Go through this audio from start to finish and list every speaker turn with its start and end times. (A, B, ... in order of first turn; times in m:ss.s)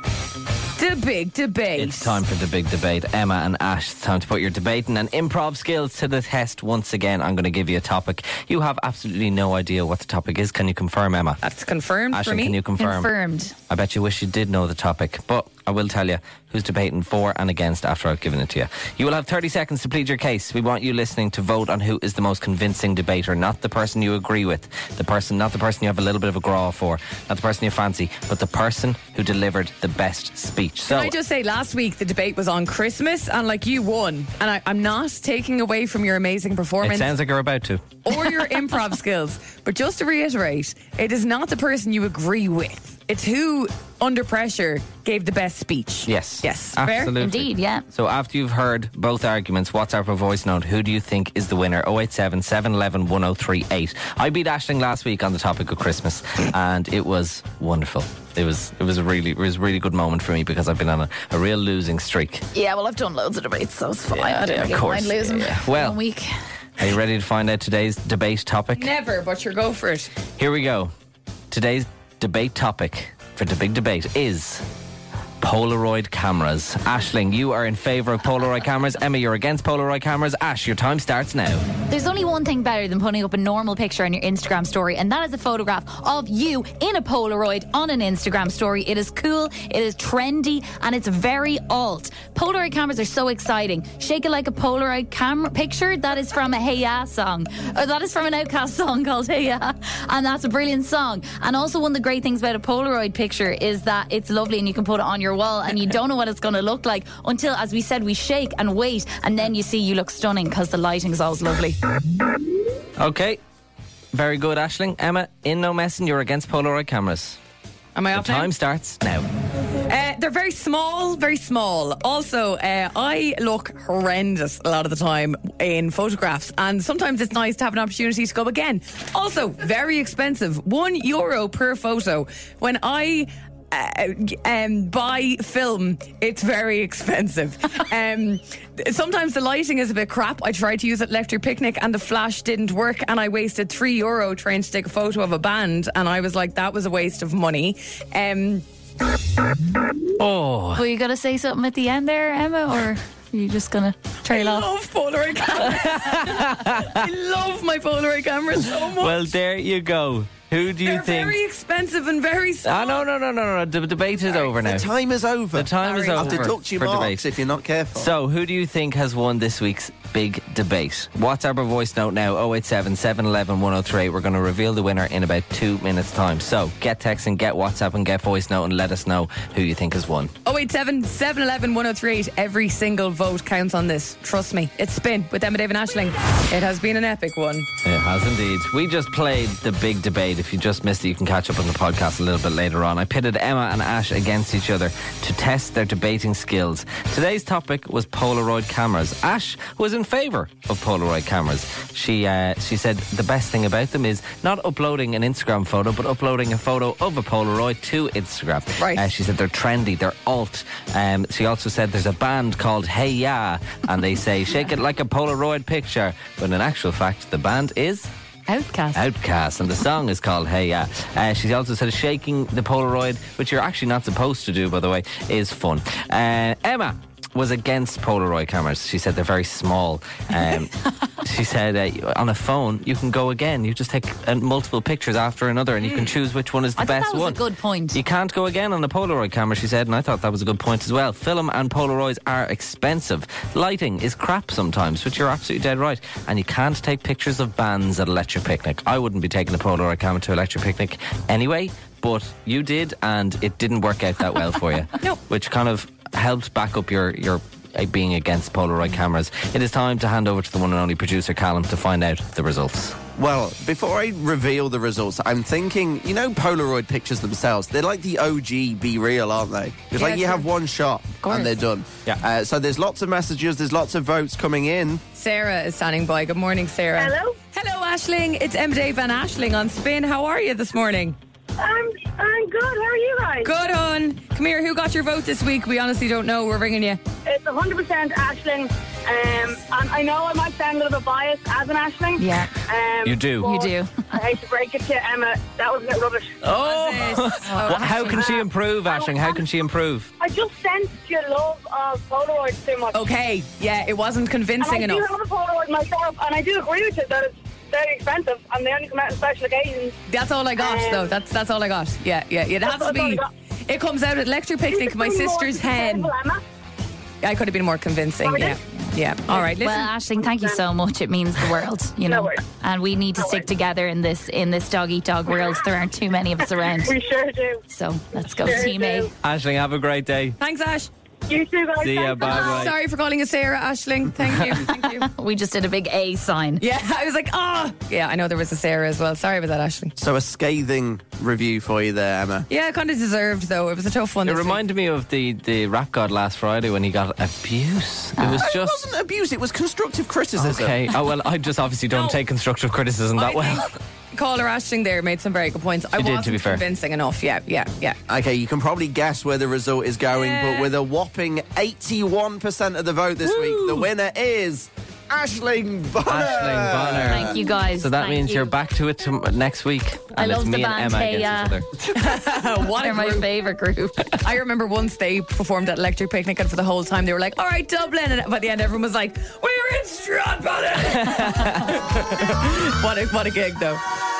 0:00.8-0:02.2 A
0:01.7-0:11.4 B
0:11.4-0:12.6 A
0:12.1-0:13.1 B
0:12.8-0:13.6 C
0:13.7-0:31.1 B
0:30.9-0:37.1 A
0:36.8-0:38.1 B
0:38.0-0:47.1 A
0:46.0-1:02.4 B
0:47.2-0:47.8 C
1:02.5-1:06.3 C
1:04.1-1:06.0 B
1:06.8-1:08.9 B
1:08.7-1:10.1 A
1:10.4-1:10.9 B
1:11.5-1:14.6 B
1:15.4-1:21.6 B
1:21.9-1:51.8 C
1:53.0-1:53.4 B
1:54.1-1:57.4 B
1:57.9-1:58.5 A
1:58.1-1:59.3 B
1:59.8-2:28.6 A
2:30.2-2:30.8 B
2:30.8-2:34.7 C
2:34.2-2:39.3 A
2:35.8-2:36.9 B
2:38.9-2:41.4 B
2:40.8-2:43.0 A
2:42.6-2:44.9 B
2:44.6-2:48.1 D
2:45.5-2:47.3 B
2:45.8-2:46.5 A
2:47.9-3:00.3 B
3:00.4-3:07.7 A
3:07.8-3:38.1 B
3:28.8-3:29.0 A
3:38.5-3:39.0 C
3:38.9-3:57.4 B
3:56.8-3:58.0 C
3:57.9-4:23.0 B
4:23.2-4:35.0 D
4:30.0-4:30.4 A
4:31.2-4:31.5 C
4:35.1-4:41.2 A
4:37.0-4:37.4 E
4:41.6-4:43.5 E
4:43.4-4:47.0 A
4:47.2-4:56.4 E
4:52.2-4:52.5 C
4:53.0-4:53.5 B
4:53.4-4:54.0 C
4:56.4-5:00.1 B
4:56.4-4:58.2 A
4:57.4-4:57.8 C
4:57.9-4:59.4 E
5:00.2-5:03.0 E
5:02.9-5:05.1 A
5:04.6-5:10.0 E
5:10.1-5:16.1 A
5:10.6-5:11.1 E
5:12.6-5:13.3 E
5:14.6-5:16.4 E
5:17.2-5:19.9 A
5:18.2-5:18.6 E
5:19.3-5:26.9 C
5:20.2-5:20.6 E
5:22.0-5:22.4 E
5:23.2-5:23.4 E
5:26.8-5:27.6 E
5:27.7-5:29.1 C
5:28.3-5:29.1 E
5:29.2-5:30.4 B
5:30.4-5:30.9 A
5:31.3-5:32.7 E
5:31.8-5:32.8 B
5:32.2-5:35.1 A
5:35.0-5:36.6 C
5:36.6-5:39.9 A
5:40.0-5:42.5 D
5:42.5-5:44.6 A
5:44.2-5:48.9 B
5:48.2-5:48.5 C
5:48.4-5:50.8 D
5:50.4-5:53.7 B
5:51.9-5:52.2 A
5:53.1-5:58.0 A
5:56.0-5:56.6 B
5:58.1-6:07.3 D
6:00.1-6:00.7 A
6:03.2-6:03.6 B
6:06.0-6:11.7 B
6:07.0-6:08.6 C
6:10.1-6:11.6 C
6:11.8-6:13.3 A
6:12.6-6:14.1 C
6:14.0-6:23.8 A